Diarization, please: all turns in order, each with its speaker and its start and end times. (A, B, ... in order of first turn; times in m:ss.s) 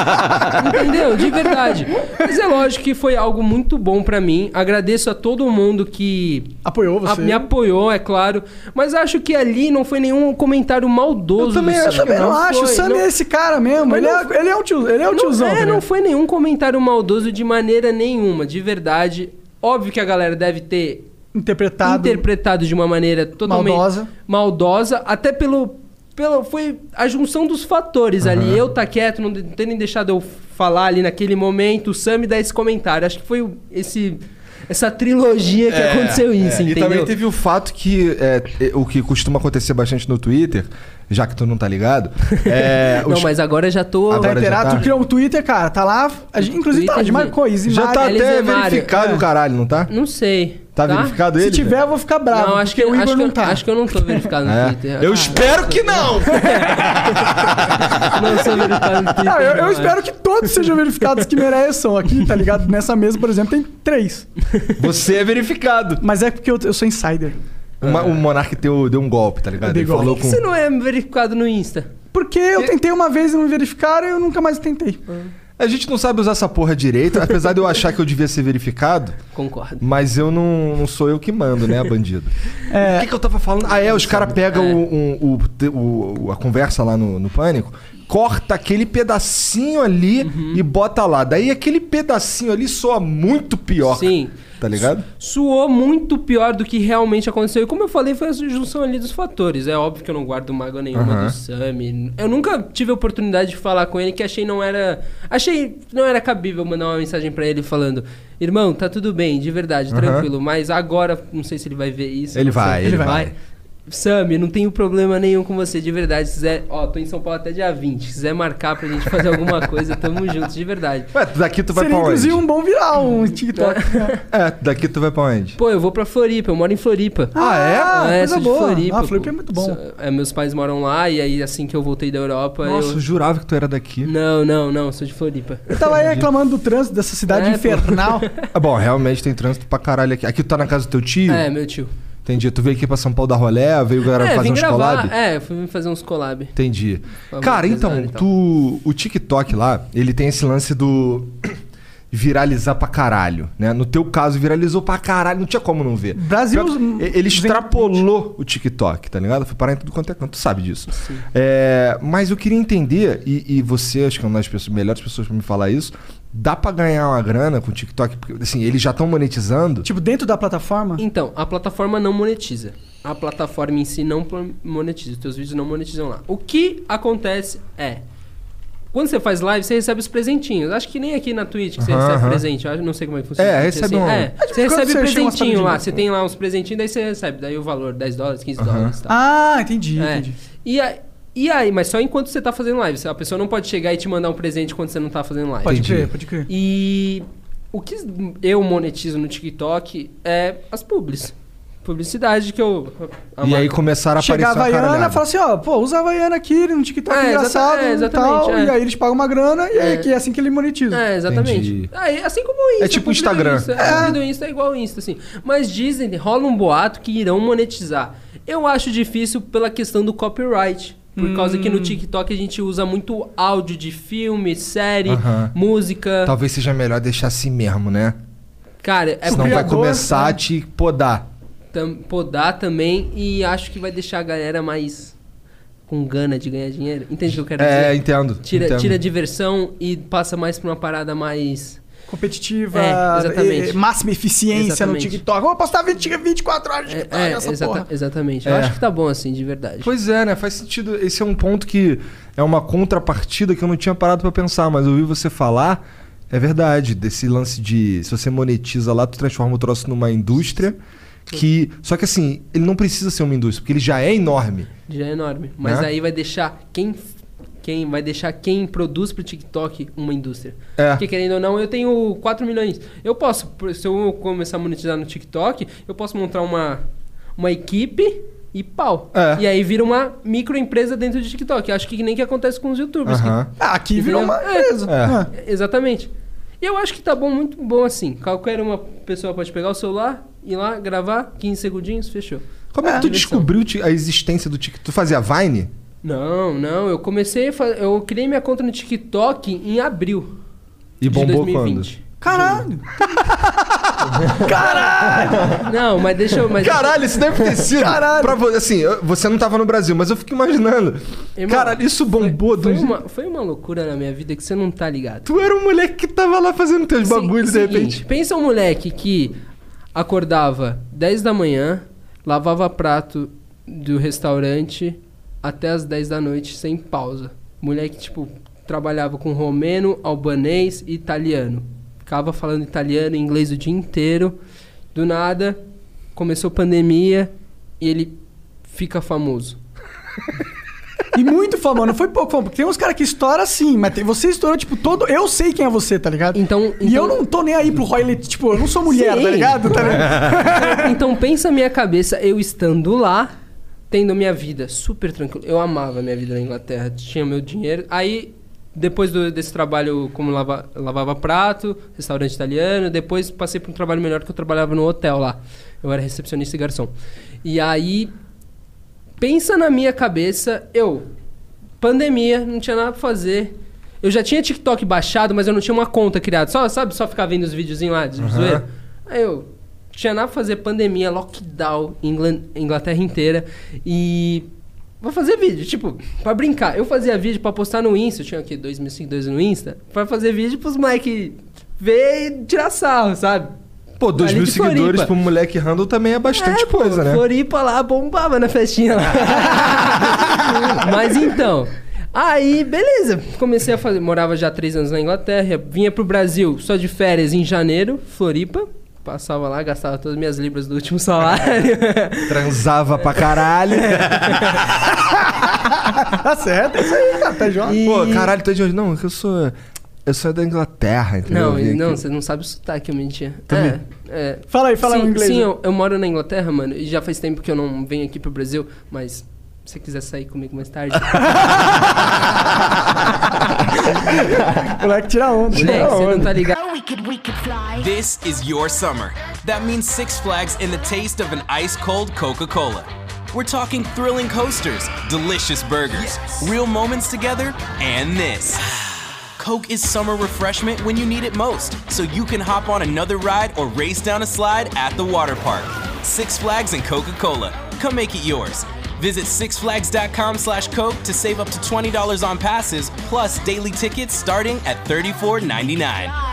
0:00.4-0:13.1 A
0:06.6-0:07.5 B
0:11.4-0:12.4 C
0:11.9-0:15.8 B
0:13.8-0:14.4 A
0:15.0-0:21.1 A
0:21.3-0:22.2 B
0:21.8-0:37.1 A
0:23.4-0:24.1 B
0:28.2-0:28.6 C
0:35.7-0:43.3 C
0:42.3-0:44.5 A
0:44.1-0:44.9 C
0:44.2-0:48.2 B
0:46.4-0:47.4 A
0:47.6-0:49.9 C
0:47.9-0:49.0 A
0:48.9-0:49.2 B
0:49.9-0:51.2 A
0:50.8-0:51.8 C
0:51.4-0:54.3 B
0:52.3-1:00.0 A
0:54.4-0:58.6 C
0:59.2-1:04.3 B
1:04.8-1:06.0 C
1:06.0-1:07.4 B
1:07.8-1:08.2 A
1:07.8-1:10.4 C
1:09.6-1:10.2 B
1:09.9-1:11.9 A
1:12.1-1:15.0 B
1:15.6-1:19.2 C
1:19.3-1:19.8 A
1:19.8-1:35.0 C
1:22.7-1:23.1 B
1:24.2-1:24.8 A
1:30.2-1:30.6 A
1:33.8-1:53.3 A
1:40.9-1:41.4 C
1:49.9-1:50.3 C
1:52.3-1:53.3 C
1:52.8-1:53.3 B
1:53.9-2:01.1 A
2:01.1-2:02.4 C
2:01.7-2:04.1 B
2:03.6-2:04.2 A
2:04.3-2:05.6 C
2:05.6-2:13.0 A
2:07.4-2:09.8 B
2:07.4-2:08.0 C
2:12.6-2:14.1 C
2:14.0-2:15.8 A
2:15.7-2:18.3 B
2:16.0-2:16.3 C
2:17.3-2:18.5 A
2:18.5-2:21.5 C
2:21.3-2:21.9 A
2:22.2-2:25.1 C
2:24.2-2:26.5 A
2:26.6-2:31.6 C
2:27.3-2:28.3 A
2:32.1-2:49.9 C
2:36.2-2:38.0 B
2:40.9-2:41.2 A
2:49.8-2:51.0 B
2:51.0-2:58.0 A
2:58.9-3:09.2 A
3:01.8-3:02.4 C
3:03.4-3:04.3 C
3:04.4-3:05.9 B
3:08.6-3:08.9 C
3:09.1-3:10.4 B
3:10.0-3:23.8 A
3:15.6-3:16.5 B
3:15.7-3:16.1 C
3:23.4-3:25.2 C
3:24.2-3:31.0 B
3:27.1-3:28.8 A
3:29.8-3:30.1 A
3:30.9-3:46.4 A
3:31.3-3:31.9 C
3:32.8-3:34.2 C
3:33.8-3:34.2 B
3:41.2-3:42.0 B
3:45.1-3:45.6 C
3:46.2-3:48.2 C
3:48.8-3:49.8 A
3:49.3-3:50.4 B
3:49.3-3:51.3 C
3:51.7-3:55.2 A
3:55.9-4:01.8 A
3:57.5-3:59.0 C
4:02.1-4:07.8 B
4:02.7-4:03.8 A
4:04.5-4:05.2 A
4:06.9-4:09.9 A
4:08.4-4:08.8 C
4:09.8-4:20.8 C
4:21.3-4:24.7 C
4:24.9-4:27.0 A
4:25.6-4:25.9 C
4:27.6-4:36.8 A
4:30.8-4:31.0 C
4:37.4-4:43.4 A
4:39.1-4:39.4 C
4:43.1-4:43.5 C
4:43.6-4:45.3 B
4:43.9-4:46.1 A
4:44.9-4:45.2 C
4:46.6-4:53.5 A
4:52.7-4:55.7 C
4:56.0-5:00.4 A
5:01.0-5:01.9 C
5:01.1-5:02.7 A
5:02.2-5:03.5 B
5:04.0-5:04.3 C
5:04.2-5:05.7 B
5:04.6-5:04.9 A
5:05.5-5:07.2 A
5:06.5-5:13.0 C
5:07.6-5:08.4 B
5:11.4-5:15.3 A
5:15.3-5:18.0 C
5:17.0-5:19.4 A
5:20.0-5:34.4 A
5:34.9-5:35.6 A
5:36.2-5:38.2 A
5:38.7-5:39.6 A
5:41.1-5:50.9 B
5:46.3-5:47.2 A
5:48.8-5:53.3 A
5:50.0-5:50.4 C
5:53.9-6:06.9 A
6:07.4-6:08.1 A
6:09.2-6:11.1 A
6:11.8-6:24.5 A
6:18.2-6:18.6 C
6:25.0-6:33.5 A
6:34.0-6:37.2 C
6:34.2-6:35.1 A
6:36.3-6:52.6 A
6:52.3-6:54.7 C
6:53.9-6:54.7 A
6:55.8-6:57.8 B
6:57.6-6:58.3 A
6:57.8-7:02.0 C
7:01.3-7:12.0 A
7:03.5-7:03.8 C
7:04.5-7:05.5 B
7:13.9-7:16.4 B
7:15.5-7:16.6 A
7:15.6-7:16.3 C
7:17.6-7:46.2 D